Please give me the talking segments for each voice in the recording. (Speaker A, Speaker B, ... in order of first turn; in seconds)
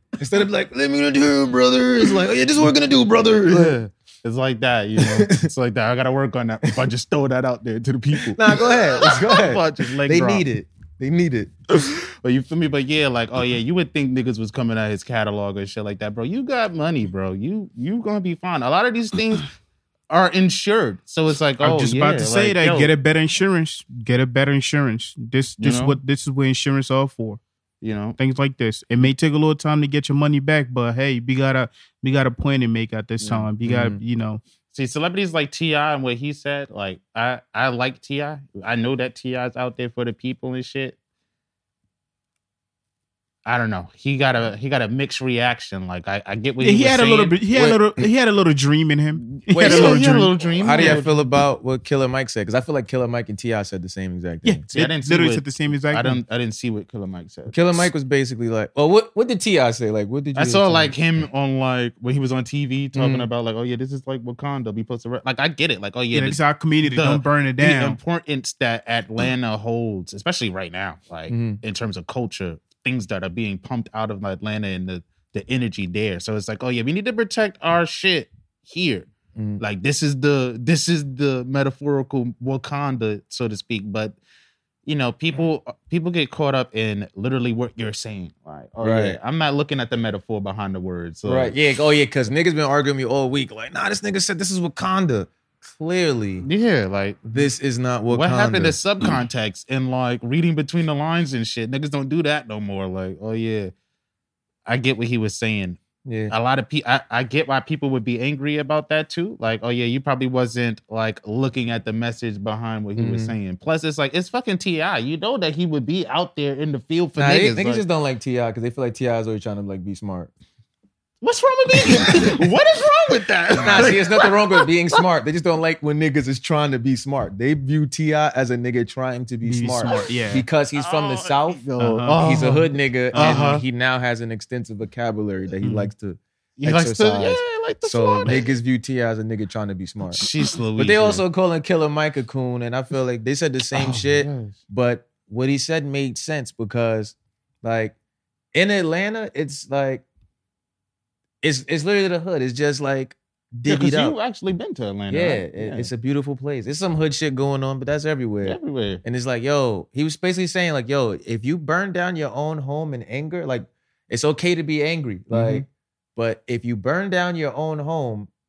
Speaker A: 0.2-3.8, 5.0-5.5, 8.2-11.5, 33.6-34.0, 47.5-47.8, 49.5-50.0, 50.5-54.6, 57.5-61.0, 62.9-63.3, 71.3-71.6, 79.4-79.6, 88.8-89.2, 91.2-96.5, 97.2-99.1, 106.0-106.3, 113.0-113.4, 117.2-120.3, 123.5-140.2, 140.8-147.9, 148.5-150.1, 151.4-154.2, 155.1-168.3
Speaker B: 3.5-10.5, 11.8-19.5, 20.1-22.9, 25.6-26.0, 27.8-28.2, 33.2-33.5, 34.7-41.0, 43.5-47.4, 49.4-51.3, 54.7-57.9, 60.4-84.2, 84.9-91.6, 96.4-97.5, 98.1-103.7, 104.7-105.8, 106.3-117.8, 121.2-124.7, 130.8-133.6, 136.6-138.6, 140.1-141.2, 143.7-144.6, 153.7-155.9, 158.4-159.0, 165.3-165.7
Speaker C: 21.6-27.4, 28.2-34.4, 46.6-51.0, 54.5-56.2, 66.1-68.0, 129.4-130.5, 131.8-132.2, 133.1-133.6, 135.6-135.9